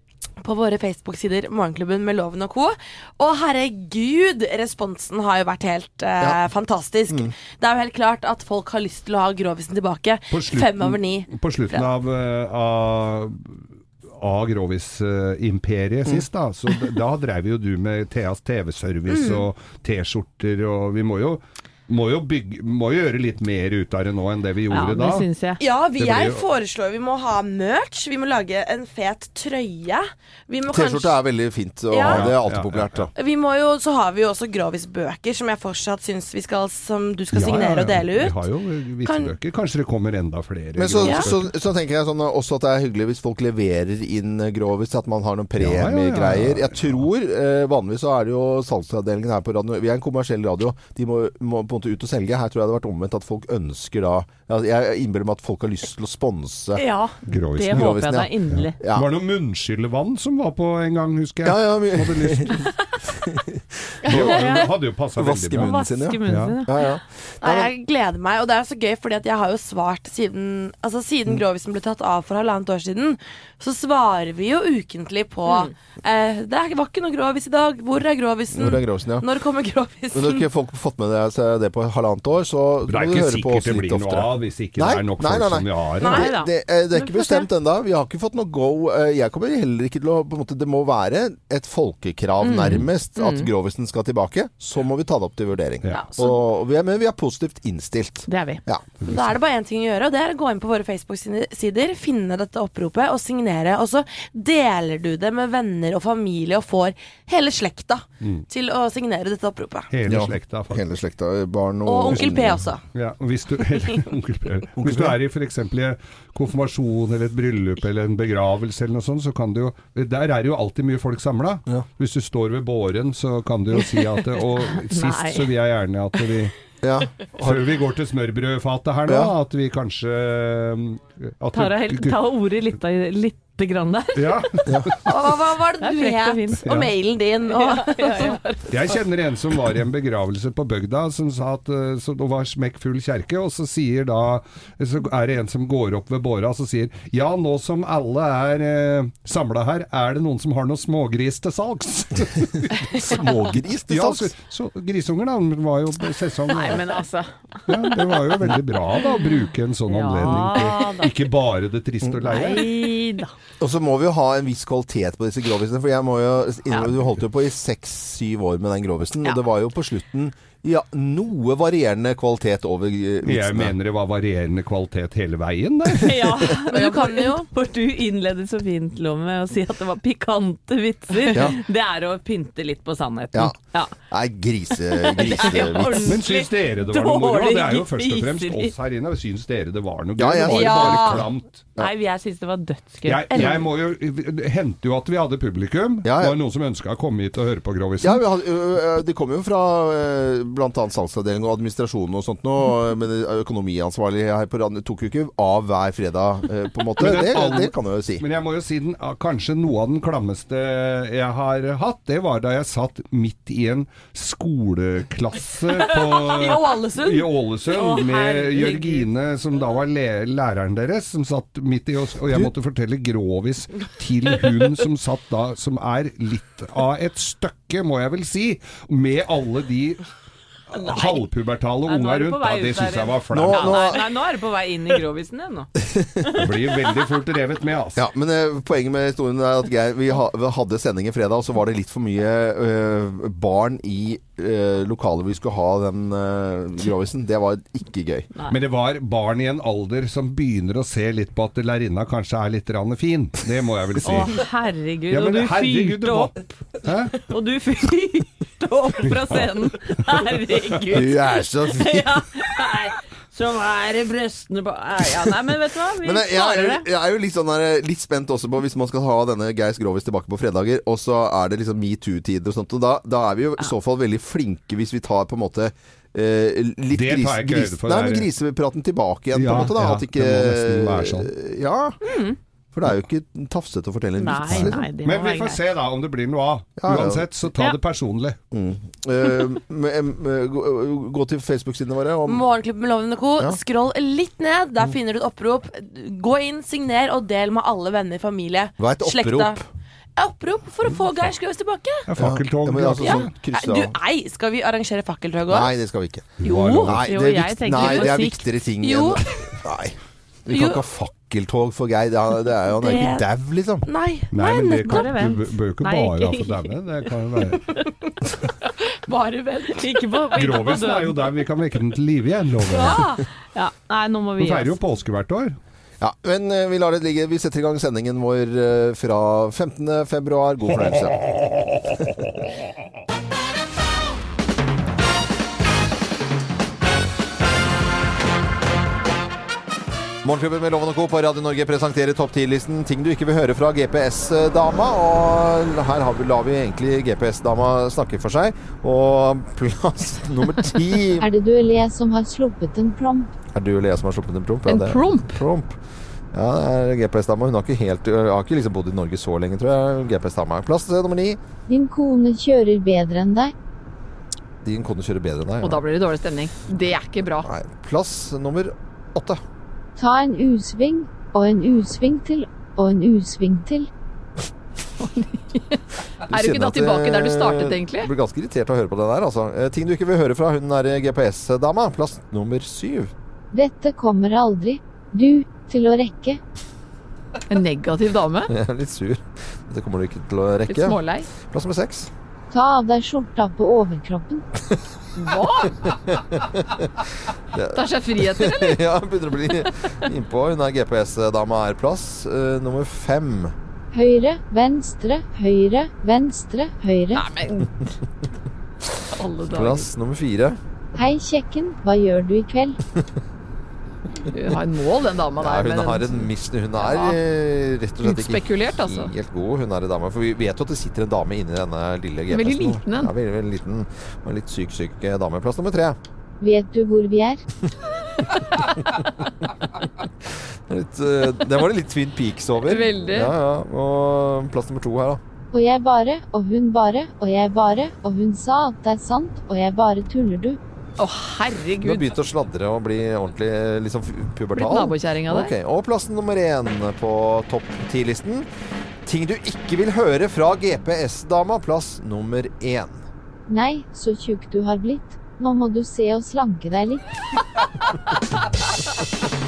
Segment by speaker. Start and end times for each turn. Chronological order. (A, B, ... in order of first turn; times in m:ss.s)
0:00.4-0:11.8 A
0:07.1-0:07.3 B
0:10.3-0:25.2 C
0:16.0-0:16.8 B
0:19.1-0:19.4 A
0:24.7-0:25.6 D
0:25.6-0:31.2 A
0:26.0-0:26.4 C
0:30.7-0:33.1 B
0:31.9-0:32.3 A
0:32.0-0:33.1 C
0:33.1-0:38.4 A
0:37.3-0:41.5 C
0:39.0-0:39.3 A
0:40.8-0:56.8 B
0:41.0-0:41.3 A
0:45.6-0:47.0 C
0:56.8-0:58.8 D
0:57.3-1:02.6 C
0:57.7-0:59.1 B
1:01.4-1:04.6 B
1:04.1-1:05.7 C
1:04.2-1:04.7 D
1:05.1-1:07.7 B
1:05.5-1:06.8 D
1:06.2-1:06.6 C
1:07.4-1:20.4 A
1:18.5-1:19.2 B
1:20.1-1:39.0 B
1:22.9-1:26.2 C
1:26.0-1:26.3 A
1:26.0-1:27.4 D
1:32.4-1:33.5 D
1:35.9-1:36.3 A
1:38.3-1:38.6 D
1:39.0-1:49.9 A
1:49.9-1:50.8 C
1:50.0-1:52.6 B
1:51.8-1:52.8 A
1:52.9-2:06.5 C
1:54.8-1:55.2 B
2:03.8-2:04.0 D
2:04.7-2:05.5 D
2:06.8-2:07.7 B
2:07.4-2:12.2 C
2:09.1-2:09.3 B
2:11.5-2:14.6 D
2:14.2-2:15.0 C
2:14.6-2:14.9 B
2:15.0-2:18.4 A
2:15.8-2:16.6 D
2:16.6-2:16.9 C
2:17.5-2:18.5 D
2:18.7-2:32.7 C
2:33.0-2:34.3 B
2:33.9-2:36.9 C
2:36.5-2:37.7 D
2:37.7-2:42.7 C
2:39.9-2:41.1 D
2:42.0-2:42.3 B
2:42.2-2:43.3 D
2:43.6-2:53.7 B
2:53.2-2:56.2 C
2:56.0-3:03.9 D
2:56.7-2:57.5 A
3:01.3-3:01.6 B
3:04.1-3:06.2 B
3:04.7-3:08.7 D
3:06.0-3:11.6 C
3:10.2-3:11.9 B
3:10.5-3:11.2 A
3:11.8-3:13.5 D
3:13.0-3:18.2 C
3:13.3-3:13.6 A
3:16.0-3:16.4 B
3:18.0-3:28.2 B
3:27.0-3:50.0 C
3:35.8-3:37.3 A
3:37.7-3:39.1 D
3:50.7-3:53.9 C
3:50.7-3:51.2 D
3:51.8-3:55.7 D
3:53.3-3:54.0 B
3:55.9-3:56.2 B
3:56.4-3:58.0 C
3:58.0-4:08.3 B
4:08.5-4:14.3 C
4:14.0-4:16.5 D
4:15.1-4:17.2 C
4:17.1-4:26.8 D
4:19.0-4:19.5 C
4:20.9-4:22.2 B
4:26.0-4:42.0 B
4:36.9-4:38.3 C
4:39.3-4:41.3 C
4:42.0-4:42.4 D
4:42.7-4:44.9 B
4:44.2-4:45.6 D
4:44.5-4:48.4 C
4:46.8-4:47.3 B
4:48.5-4:52.5 B
4:52.2-4:59.6 A
4:58.8-4:59.6 B
5:00.2-5:02.1 A
5:02.1-5:03.3 C
5:02.2-5:04.0 B
5:03.0-5:05.7 A
5:05.5-5:13.8 B
5:06.4-5:07.0 C
5:06.4-5:08.5 D
5:07.7-5:08.1 A
5:08.8-5:09.5 A
5:10.5-5:10.8 A
5:12.7-5:13.2 A
5:13.8-5:14.3 A
5:14.3-5:17.6 C
5:14.4-5:16.6 D
5:19.1-5:20.1 A
5:19.7-5:21.2 D
5:20.3-5:23.0 C
5:22.6-5:23.2 A
5:23.5-5:24.7 D
5:24.4-5:25.6 C
5:26.0-5:31.2 B
5:30.7-5:32.5 C
5:40.2-5:51.3 B
5:51.2-5:53.3 E
5:53.5-5:55.8 B
5:54.6-5:55.4 F
5:56.3-6:01.4 B
6:01.7-6:03.5 E
6:04.6-6:05.8 B
6:05.6-6:07.5 F
6:07.4-6:09.4 B
6:10.0-6:13.9 E
6:15.0-6:18.1 F
6:16.2-6:23.1 B
6:23.5-6:26.4 E
6:27.5-6:28.5 F
6:28.5-6:32.1 B
6:30.6-6:31.3 F
6:32.5-6:34.4 E
6:35.2-6:35.9 F
6:35.8-6:36.8 B
6:37.5-6:43.5 B
6:37.7-6:38.8 F
6:43.9-6:47.3 E
6:47.1-6:47.9 F
6:49.2-6:49.9 F
6:49.5-6:50.6 B
6:51.0-6:52.8 E
6:54.3-6:57.2 F
6:55.4-7:06.0 B
6:58.0-6:59.1 F
7:02.3-7:03.1 F
7:06.4-7:07.4 E
7:10.7-7:15.2 B
7:12.6-7:13.3 F
7:15.5-7:20.6 E
7:21.0-7:22.1 F
7:21.8-7:28.5 B
7:24.5-7:25.5 F
7:29.0-7:33.0 B
7:33.5-7:37.0 E